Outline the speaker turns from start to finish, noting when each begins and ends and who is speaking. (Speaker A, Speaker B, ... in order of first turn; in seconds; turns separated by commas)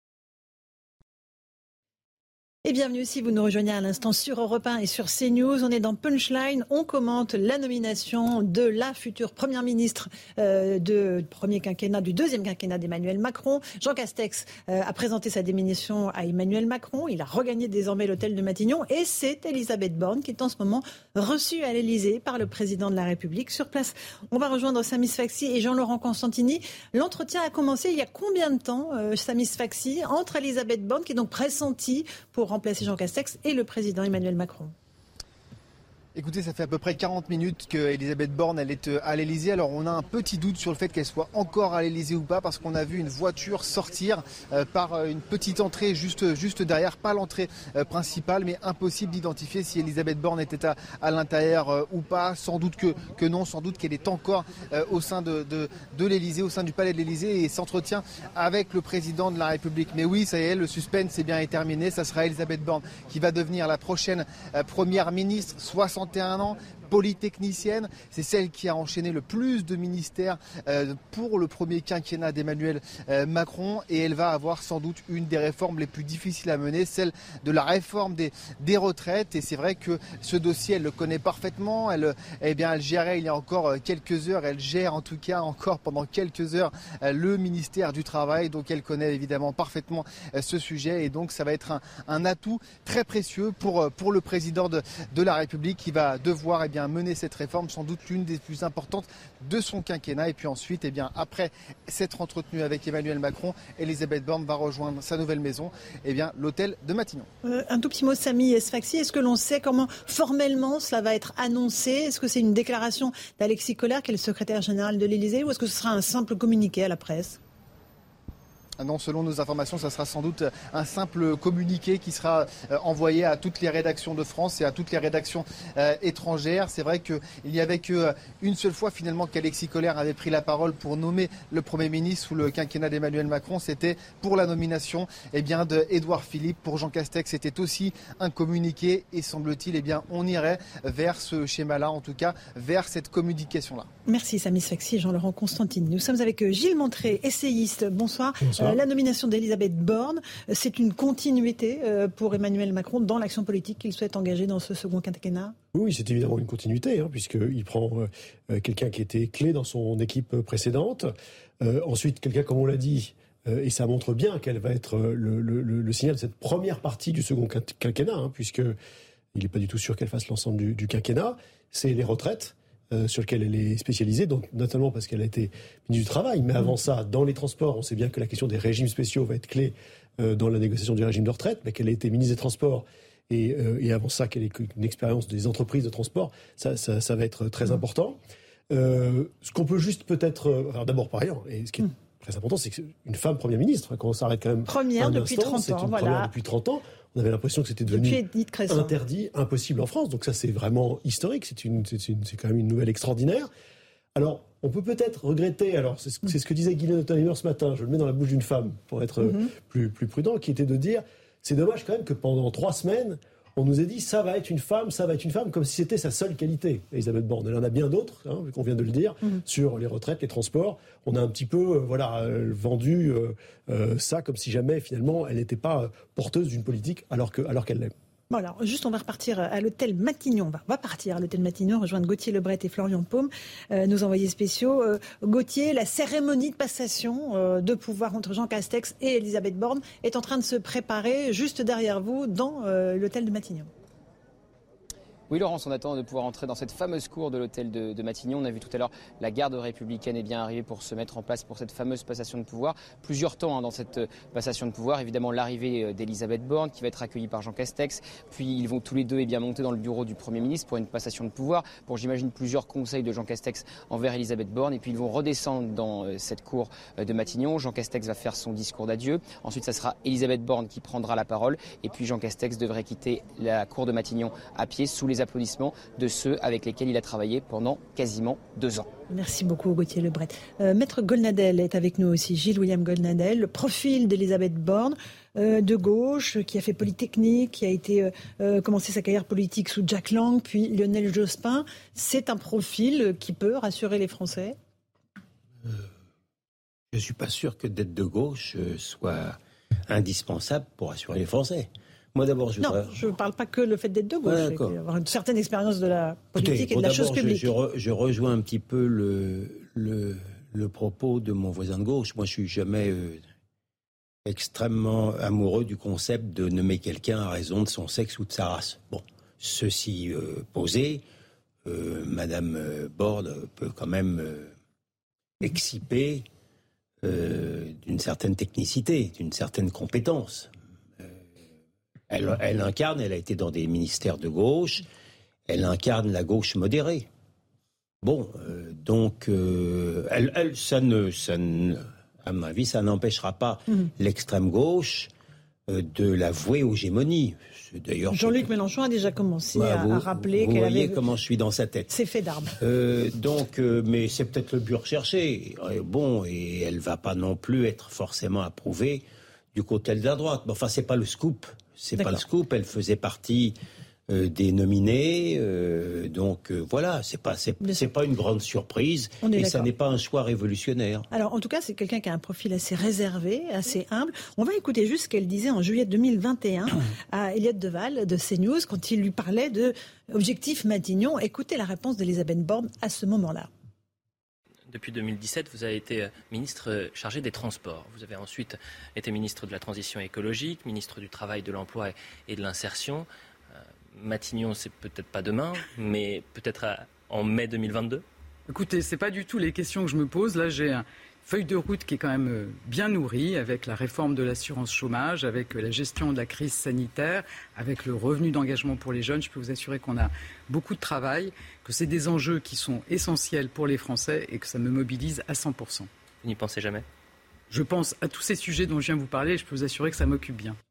Speaker A: 2.6-34.7, Speaker B: 36.1-107.3, Speaker A: 107.4-117.4, Speaker B: 118.8-143.9, Speaker A: 144.1-155.5, Speaker C: 148.4-148.8, Speaker C: 155.7-168.8, Speaker C: 169.3-188.2, Speaker C: 188.7-203.5, Speaker A: 194.7-196.3, Speaker A: 197.9-198.9, Speaker C: 204.1-227.9, Speaker A: 228.3-243.7, Speaker D: 245.3-278.9, Speaker A: 279.1-294.6, Speaker E: 296.9-299.4, Speaker E: 299.9-303.1, Speaker A: 302.6-307.5, Speaker E: 304.2-304.8, Speaker E: 306.3-313.2, Speaker E: 314.2-321.0, Speaker E: 321.6-324.5, Speaker E: 325.4-326.3, Speaker E: 327.0-330.5, Speaker E: 332.1-334.9, Speaker E: 335.5-337.1, Speaker E: 338.0-345.1, Speaker E: 345.7-348.5, Speaker A: 348.1-351.0, Speaker E: 349.5-351.9, Speaker A: 351.9-352.6, Speaker E: 352.6-363.6, Speaker A: 361.9-362.2, Speaker E: 364.1-371.1, Speaker A: 367.6-367.9, Speaker A: 369.2-369.7, Speaker A: 371.1-383.5, Speaker F: 384.7-393.1, Speaker F: 393.9-398.0, Speaker G: 398.5-415.9, Speaker F: 416.2-416.9, Speaker G: 417.5-420.6